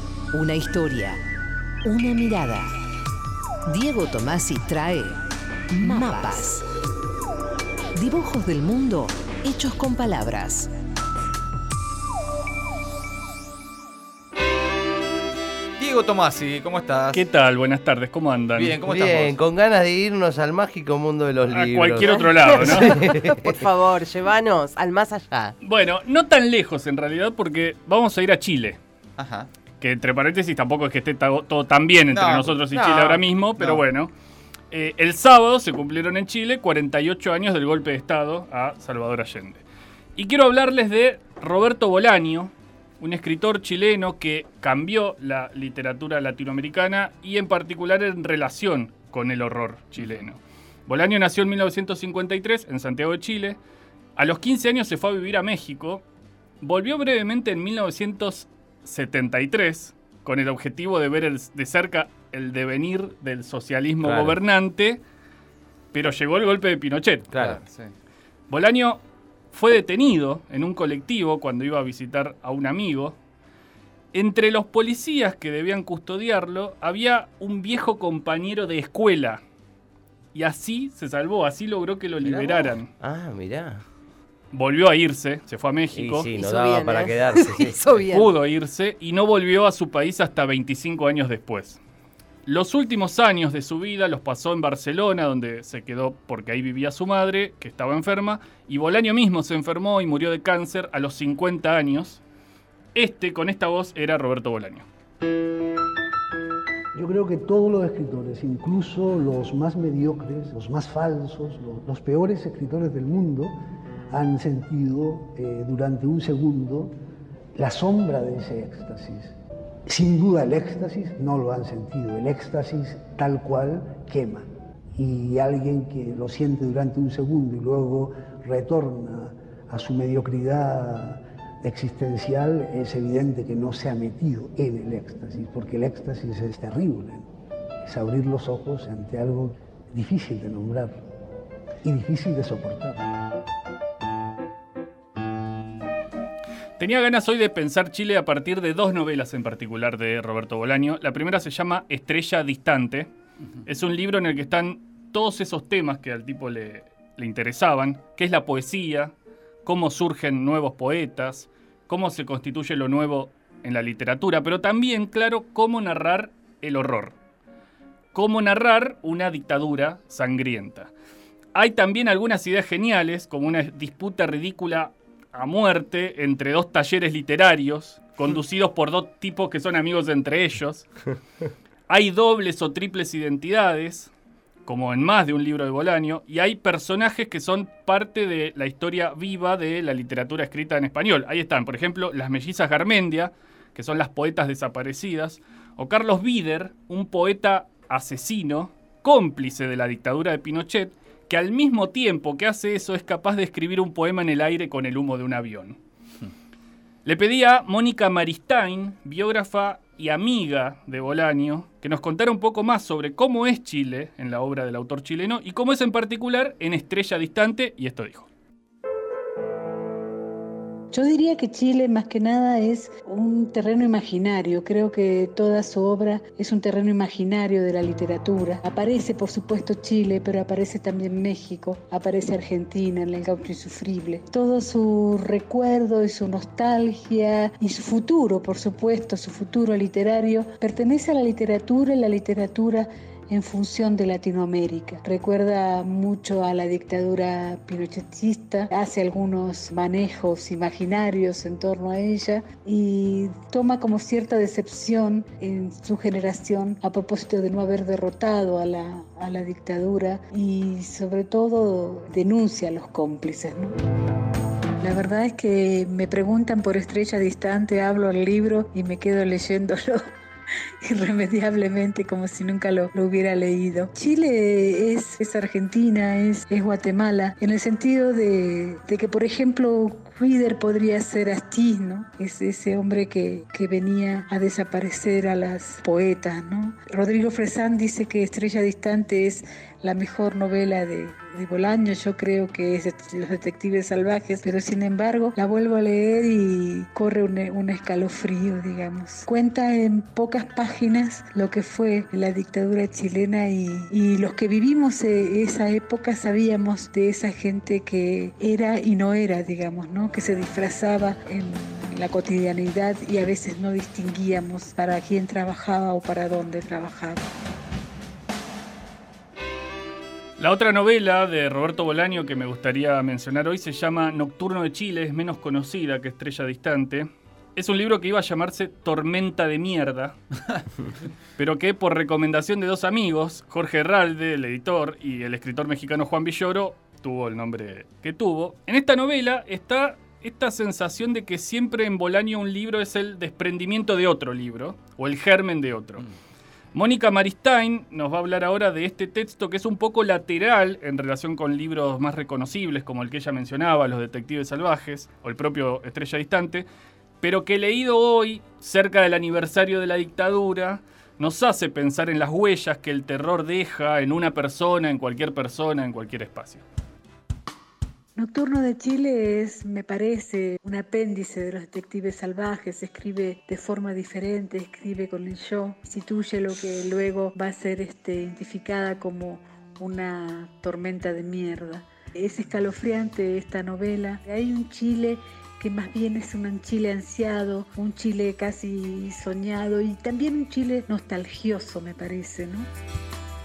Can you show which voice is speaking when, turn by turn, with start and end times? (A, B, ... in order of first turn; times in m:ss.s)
0:00.3-0:01.2 A
0:01.8-0:02.7 A
0:03.7-0:05.2 A
0:05.7-0:06.6 A
0:08.0-0:10.7 A
0:15.8-0:17.2 B
0:17.1-0:18.8 C
0:18.6-0:19.4 B
0:18.8-0:23.6 D
0:21.5-0:23.0 C
0:22.0-0:25.5 E
0:25.6-0:28.8 C
0:29.2-0:29.5 B
0:29.8-0:34.1 C
0:32.1-0:33.8 B
0:34.7-0:39.6 C
0:40.2-0:53.6 C
0:54.2-0:56.0 C
0:56.6-1:05.0 C
1:04.0-1:04.4 D
1:05.9-1:07.3 C
1:07.3-1:07.6 D
1:07.3-1:07.9 B
1:08.5-1:13.2 C
1:14.1-1:19.4 C
1:20.3-1:22.9 C
1:22.2-1:23.8 D
1:24.5-1:26.3 C
1:25.9-1:27.9 D
1:26.0-1:28.3 E
1:28.1-1:31.8 C
1:32.4-1:42.2 C
1:42.9-1:44.8 C
1:46.9-1:53.5 F
1:54.1-1:56.9 F
1:57.5-1:59.3 F
1:59.9-2:17.3 F
2:17.8-2:21.0 F
2:21.8-2:23.0 F
2:26.8-2:33.1 C
2:33.6-2:47.2 C
2:48.1-2:50.9 C
2:51.5-3:00.9 C
3:01.9-3:04.1 C
3:04.6-3:25.8 C
3:27.0-3:38.3 C
3:40.9-4:23.7 G
4:24.8-4:30.0 G
4:30.8-5:17.2 G
5:20.4-5:30.2 C
5:31.4-5:46.1 C
5:46.7-5:56.6 C
5:57.2-6:06.6 C
6:08.2-6:32.6 G